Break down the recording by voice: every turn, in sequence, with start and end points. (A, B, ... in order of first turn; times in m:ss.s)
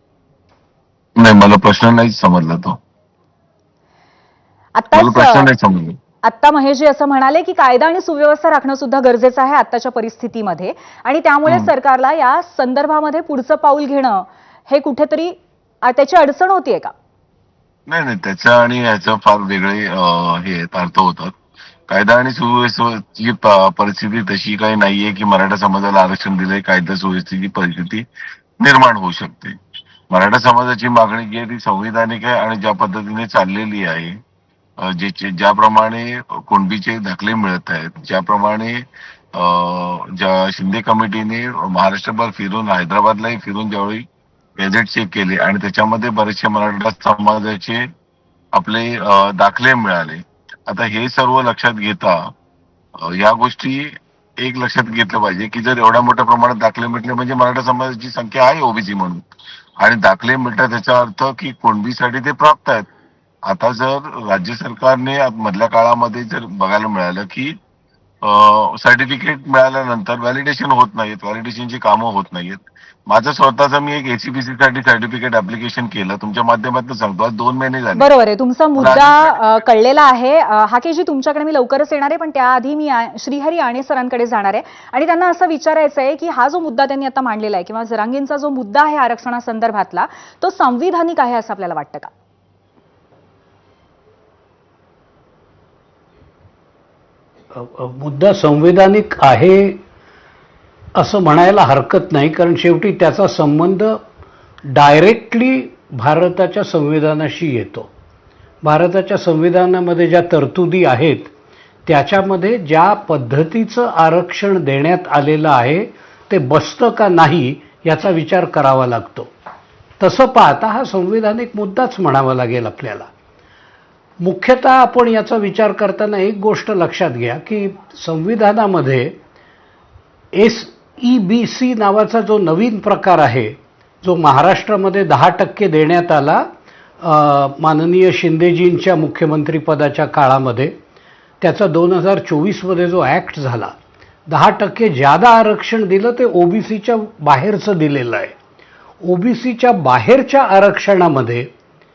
0:01.2-0:02.8 A
0:04.8-0:05.5 B
0:04.9-0:06.0 A
0:06.2-0:16.9 B
0:17.9-0:21.3 A
0:21.9-0:28.1 A
0:28.6-0:29.6 A
0:30.1-0:34.2 A
0:34.8-0:38.8 A
0:39.4-0:44.1 A
0:44.6-0:47.8 A
0:48.5-0:52.2 A
0:53.0-0:59.2 A
0:59.8-1:02.9 A
1:03.5-1:07.6 A
1:08.2-1:18.1 A
1:18.0-1:32.1 B
1:18.8-1:19.4 A
1:37.5-1:39.8 C
1:41.0-1:44.0 C
1:44.7-1:47.9 C
1:48.6-1:51.3 C
1:51.9-1:59.3 C
2:00.0-2:03.1 C
2:04.2-2:09.2 C
2:10.3-2:16.4 C
2:17.0-2:20.8 C
2:21.4-2:23.7 C
2:24.3-2:28.4 C
2:29.0-2:31.5 C